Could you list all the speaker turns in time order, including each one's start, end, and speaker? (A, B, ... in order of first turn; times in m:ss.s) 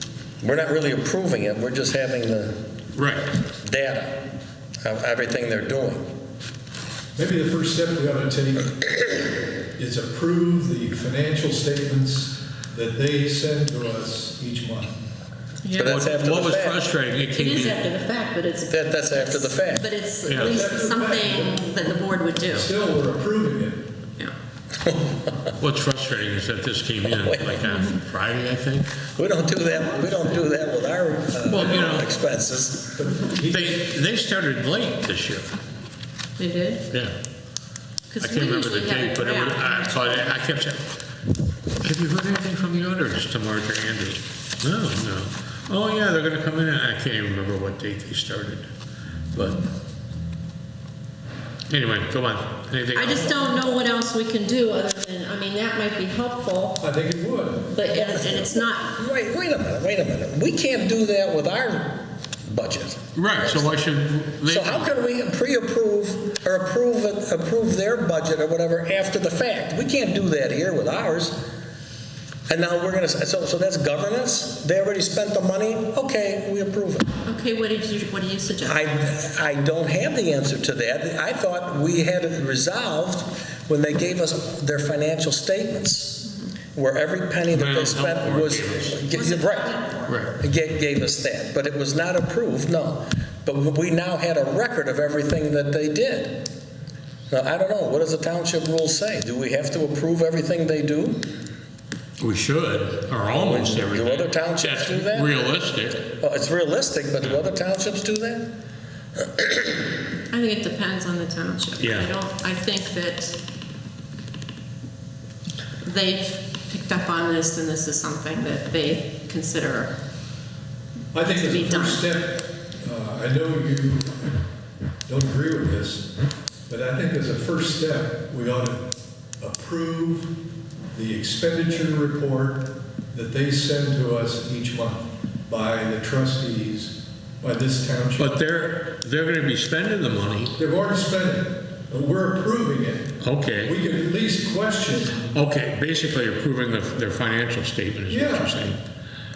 0:00.4-0:02.6 A
0:02.9-0:03.3 B
0:03.5-0:04.2 A
0:04.8-0:06.1 A
0:07.2-0:14.9 C
0:15.6-0:16.0 D
0:15.7-0:17.8 B
0:15.7-0:16.8 A
0:17.3-0:22.7 D
0:18.7-0:19.9 A
0:20.3-0:20.6 B
0:20.3-0:21.6 C
0:22.5-0:23.9 C
0:24.8-0:25.5 A
0:25.6-0:28.9 B
0:27.2-0:27.6 A
0:27.6-0:28.0 D
0:29.2-0:33.0 A
0:31.4-0:32.1 B
0:32.9-0:33.8 C
0:33.5-0:35.5 B
0:36.4-0:36.8 D
0:38.1-0:40.3 D
0:38.2-0:40.9 B
0:41.8-0:48.7 B
0:49.3-0:49.6 B
0:51.7-0:53.5 B
0:52.9-0:56.8 D
0:56.8-0:57.7 C
0:57.7-0:58.9 D
0:57.9-1:03.7 A
1:03.1-1:04.9 B
1:04.4-1:11.4 A
1:12.5-1:17.1 A
1:17.2-1:18.8 D
1:18.6-1:36.5 A
1:27.5-1:29.0 B
1:29.1-1:30.3 D
1:30.1-1:30.4 B
1:37.3-1:41.3 A
1:42.2-1:46.1 B
1:43.3-1:45.3 A
1:46.2-1:48.5 A
1:49.2-1:49.8 A
1:50.3-1:53.4 D
1:51.8-1:52.1 B
1:55.8-1:59.9 D
2:01.1-2:04.4 C
2:01.3-2:02.0 D
2:05.1-2:06.1 C
2:06.7-2:08.9 C
2:09.4-2:10.3 C
2:10.9-2:18.4 C
2:18.2-2:20.6 B
2:20.6-2:25.3 C
2:23.2-2:23.8 B
2:25.3-2:28.8 B
2:28.1-2:28.5 C